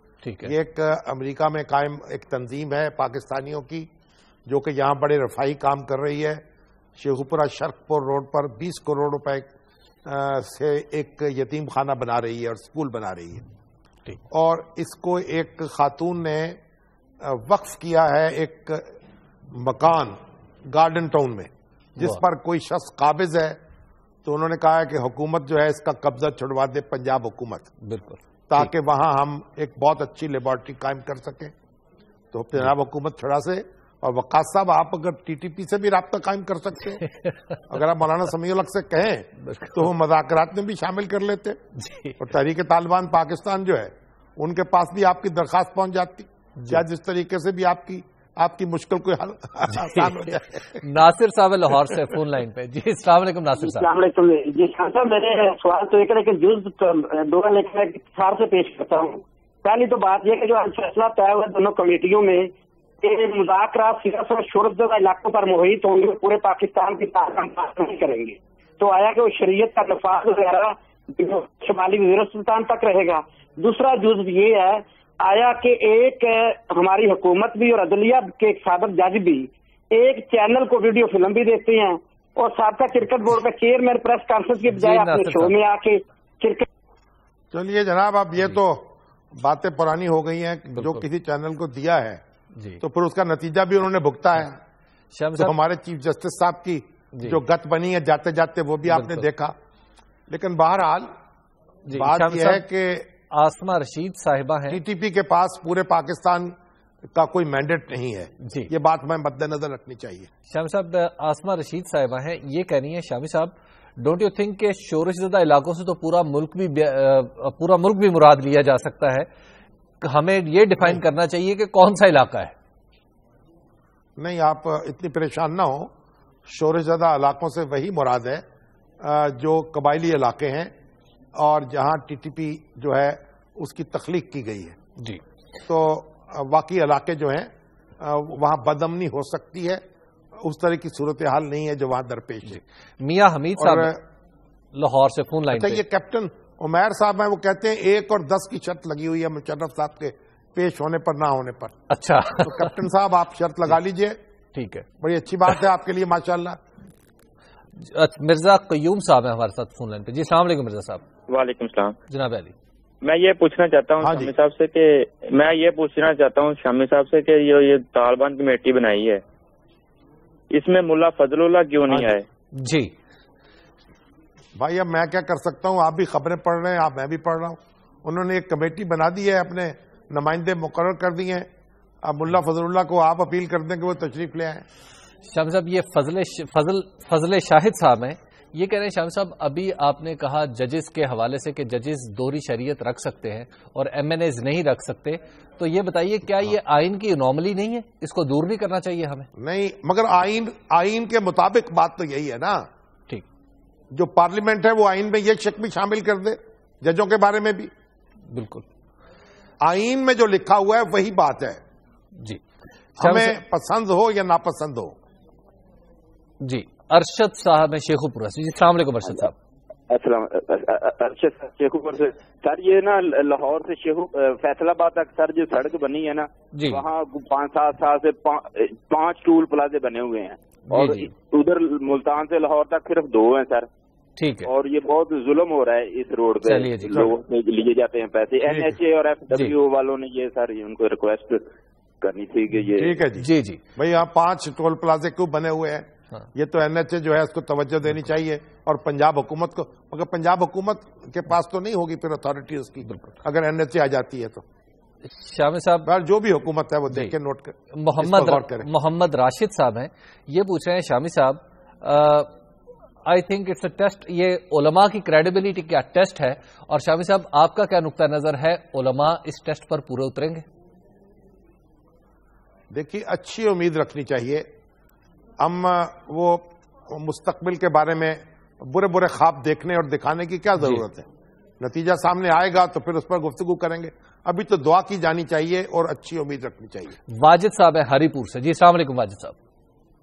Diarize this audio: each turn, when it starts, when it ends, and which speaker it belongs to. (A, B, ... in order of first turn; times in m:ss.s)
0:00.2-0:00.5 A
0:00.4-0:03.9 B
0:04.5-0:06.4 B
0:07.0-0:09.5 B
0:10.0-0:13.4 B
0:14.3-0:16.6 B
0:17.2-0:18.9 B
0:19.5-0:23.6 B
0:24.2-0:27.7 B
0:27.8-0:28.7 A
0:28.5-0:31.5 B
0:32.3-0:37.0 B
0:37.0-0:37.3 A
0:37.7-0:41.6 B
0:39.5-0:39.8 A
0:41.8-0:42.2 A
0:42.2-0:50.8 B
0:49.7-0:53.9 A
0:53.6-1:02.5 C
1:03.0-1:26.7 C
1:24.7-1:25.5 A
1:27.5-1:32.2 B
1:30.8-1:31.0 A
1:32.6-1:32.8 A
1:32.8-1:34.6 B
1:35.1-1:35.5 A
1:35.3-1:39.6 B
1:37.1-1:37.4 A
1:38.9-1:39.2 A
1:40.3-1:41.1 B
1:41.9-1:42.6 A
1:41.9-1:43.1 B
1:43.3-1:44.8 A
1:44.7-1:46.5 B
1:47.1-1:50.3 B
1:48.4-1:48.7 A
1:50.5-1:59.3 A
2:00.0-2:02.5 A
2:04.2-2:05.9 B
2:06.4-2:08.4 B
2:09.0-2:10.7 B
2:11.4-2:14.8 B
2:15.6-2:19.8 B
2:20.3-2:22.6 B
2:22.5-2:24.0 A
2:23.6-2:24.0 B
2:24.7-2:25.8 A
2:25.5-2:31.8 B
2:31.9-2:32.7 A
2:32.4-2:34.2 B
2:34.5-2:34.8 A
2:35.0-2:36.6 B
2:37.8-2:41.0 A
2:41.3-2:42.0 D
2:42.1-2:42.5 A
2:43.0-2:49.2 D
2:44.0-2:44.3 B
2:50.5-2:52.2 D
2:52.6-2:52.9 A
2:54.6-3:01.5 B
3:02.0-3:04.6 B
3:05.3-3:19.3 A
3:19.4-3:22.7 B
3:23.9-3:27.7 B
3:28.3-3:28.6 A
3:29.6-3:31.6 B
3:33.0-3:35.0 B
3:33.0-3:33.4 A
3:36.4-3:39.3 A
3:39.9-3:53.7 E
3:46.5-3:46.8 A
3:50.7-3:51.1 A
3:54.2-3:54.5 A
3:54.4-4:01.5 E
3:56.4-3:57.1 A
4:02.0-4:03.0 E
4:02.7-4:14.4 B
4:03.2-4:03.6 A
4:12.9-4:13.1 A
4:15.0-4:15.9 A
4:15.8-4:18.7 B
4:16.9-4:17.1 A
4:17.7-4:22.3 A
4:23.0-4:30.4 A
4:32.7-4:34.5 B
4:35.4-4:41.1 B
4:41.6-4:47.0 B
4:47.1-4:49.4 A